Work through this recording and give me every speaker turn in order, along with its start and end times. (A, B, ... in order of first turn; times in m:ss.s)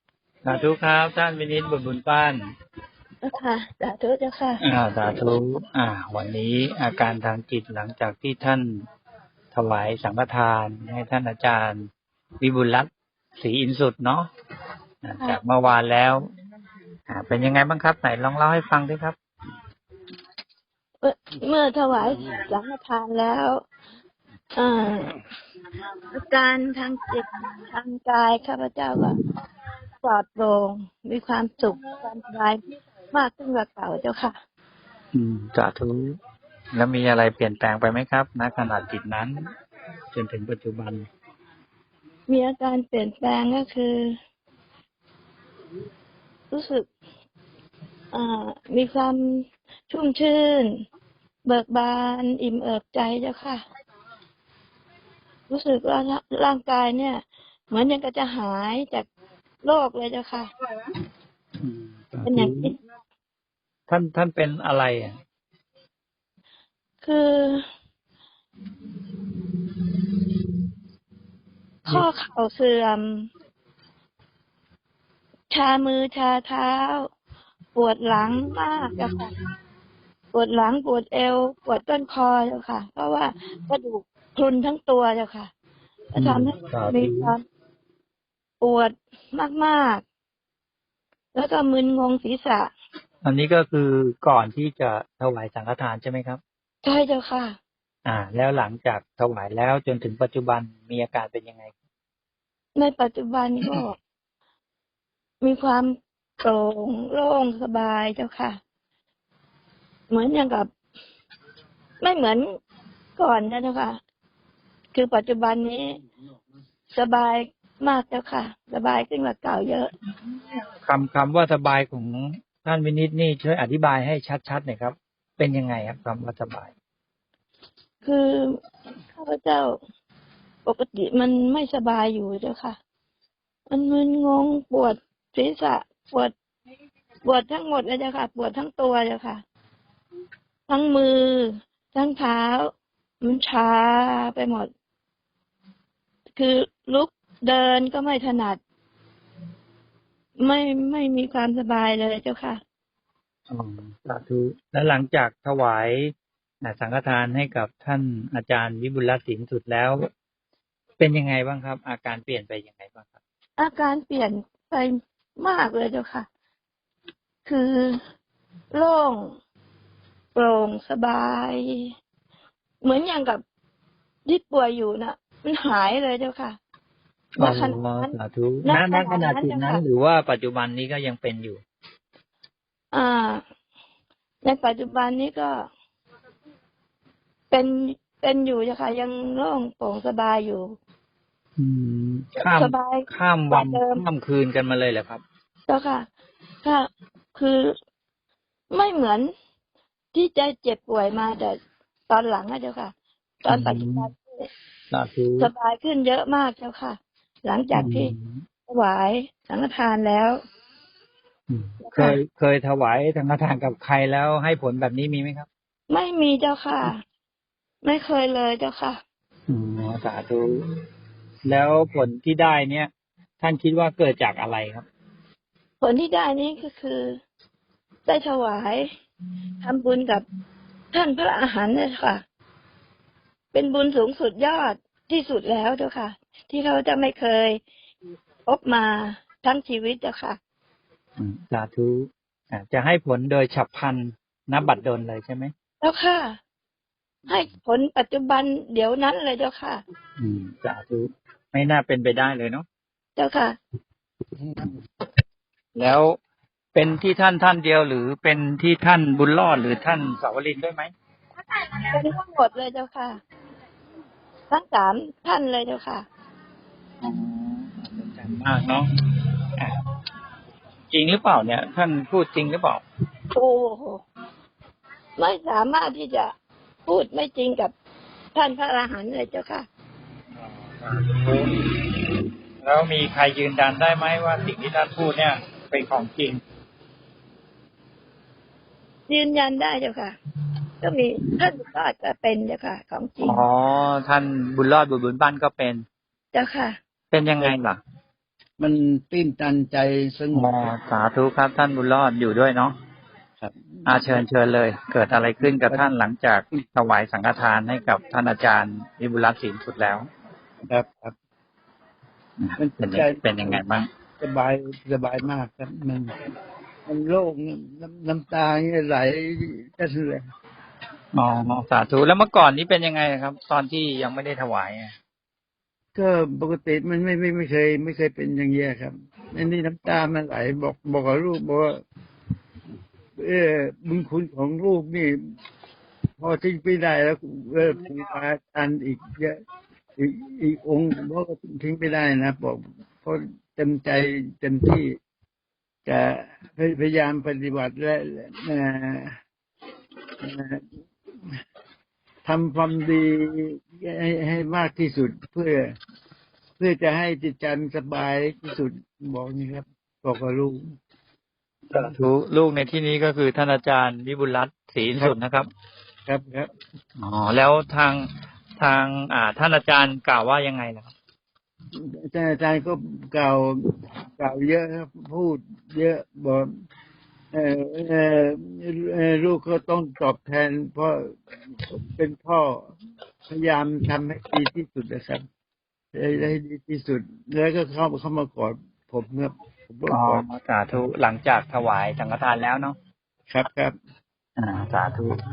0:00.4-0:02.4 A
0:03.2-0:04.6 B
0:04.6-0:08.8 A
0:09.5-0:11.8 A
0:12.4-0:14.3 A
0:15.0-0:16.3 A
0:17.1-0:19.2 A
0:21.0-0:23.6 B
0:24.6-0:25.1 B
0:26.1-0:29.2 B
0:30.0-0:32.6 B
0:33.1-0:34.3 B
0:35.1-0:36.2 A
0:36.7-0:39.4 A
0:40.1-0:41.1 A
0:42.3-0:44.1 B
0:46.5-0:46.9 B
0:48.1-0:50.7 B
0:51.4-0:53.6 B
0:55.5-0:59.1 B
0:59.6-1:00.5 B
1:01.6-1:02.7 A
1:02.2-1:02.8 B
1:03.9-1:05.2 A
1:07.0-1:07.6 B
1:11.8-1:13.3 B
1:15.5-1:17.1 B
1:17.7-1:19.3 B
1:20.3-1:25.5 B
1:26.1-1:27.4 B
1:26.2-1:27.3 A
1:28.6-1:30.0 B
1:31.3-1:32.7 B
1:33.2-1:36.4 A
1:36.8-1:37.6 B
1:38.0-1:41.7 A
1:42.7-1:44.0 B
1:45.4-1:48.6 B
1:50.1-1:50.7 B
1:52.0-1:52.5 B
1:53.2-1:54.0 B
1:54.9-1:56.0 B
1:56.9-1:59.9 B
2:00.8-2:06.7 A
2:08.0-2:08.6 B
2:09.1-2:09.8 B
2:10.6-2:12.8 B
2:13.7-2:16.3 B
2:17.2-2:19.4 B
2:20.7-2:22.7 B
2:23.2-2:24.7 B
2:26.4-2:28.6 B
2:30.4-2:32.6 B
2:33.5-2:40.0 A
2:41.0-2:43.2 A
2:43.6-2:46.3 B
2:47.4-2:48.0 B
2:48.7-2:49.3 B
2:50.3-2:51.9 B
2:52.8-2:53.4 B
2:54.2-2:56.6 B
2:57.4-3:01.6 A
2:57.4-2:59.8 B
3:02.9-3:03.4 B
3:04.4-3:05.6 B
3:07.5-3:10.7 B
3:11.6-3:15.2 A
3:12.4-3:14.0 B
3:15.7-3:16.1 B
3:16.6-3:17.7 B
3:18.7-3:19.3 B
3:20.1-3:21.6 B
3:22.1-3:22.9 B
3:23.4-3:24.5 B
3:23.5-3:24.1 A
3:24.9-3:25.5 A
3:25.4-3:28.1 B
3:27.7-3:28.4 A
3:28.7-3:30.4 B
3:31.5-3:35.5 A
3:31.8-3:32.2 B
3:35.9-3:37.0 B
3:37.8-3:39.0 B
3:39.5-3:40.6 A
3:41.4-3:44.8 A
3:45.8-3:47.2 B
3:48.0-3:48.9 B
3:49.6-3:50.2 B
3:50.9-3:52.2 B
3:53.5-3:57.6 B
3:58.4-4:00.4 B
4:01.2-4:05.5 A
4:05.8-4:06.4 B
4:07.3-4:09.8 B
4:10.2-4:12.6 A
4:13.2-4:13.6 B
4:14.4-4:14.7 C
4:15.8-4:16.2 A
4:16.7-4:20.9 A
4:21.9-4:23.2 B
4:24.5-4:26.0 B
4:27.0-4:28.9 A
4:30.9-4:32.8 A
4:33.3-4:34.0 B
4:35.2-4:36.3 B
4:36.8-4:37.7 B
4:38.3-4:39.7 B
4:40.4-4:41.5 A
4:42.6-4:46.4 A
4:49.1-4:50.1 B
4:50.8-4:53.4 B
4:53.2-4:55.8 A
4:56.3-4:56.8 B
4:57.1-4:57.8 A
4:58.6-5:00.6 C
5:00.3-5:02.7 A
5:03.4-5:04.2 C
5:03.8-5:10.1 A
5:05.4-5:05.8 C
5:10.6-5:11.1 C
5:12.4-5:13.9 A
5:12.6-5:13.6 C
5:14.2-5:16.1 C
5:16.9-5:20.2 C
5:21.1-5:24.9 A
5:25.9-5:31.8 C
5:33.2-5:35.2 C
5:36.2-5:39.4 C
5:40.0-5:44.9 C
5:45.8-5:49.2 C
5:50.2-5:50.7 C
5:52.2-5:55.7 C
5:56.6-6:00.6 C
6:01.7-6:05.5 A
6:06.1-6:06.5 C
6:07.0-6:10.9 A
6:11.7-6:16.5 C
6:17.3-6:22.7 C
6:23.3-6:25.2 C
6:25.9-6:30.2 C
6:29.9-6:32.8 A
6:33.3-6:33.7 C
6:34.4-6:35.1 A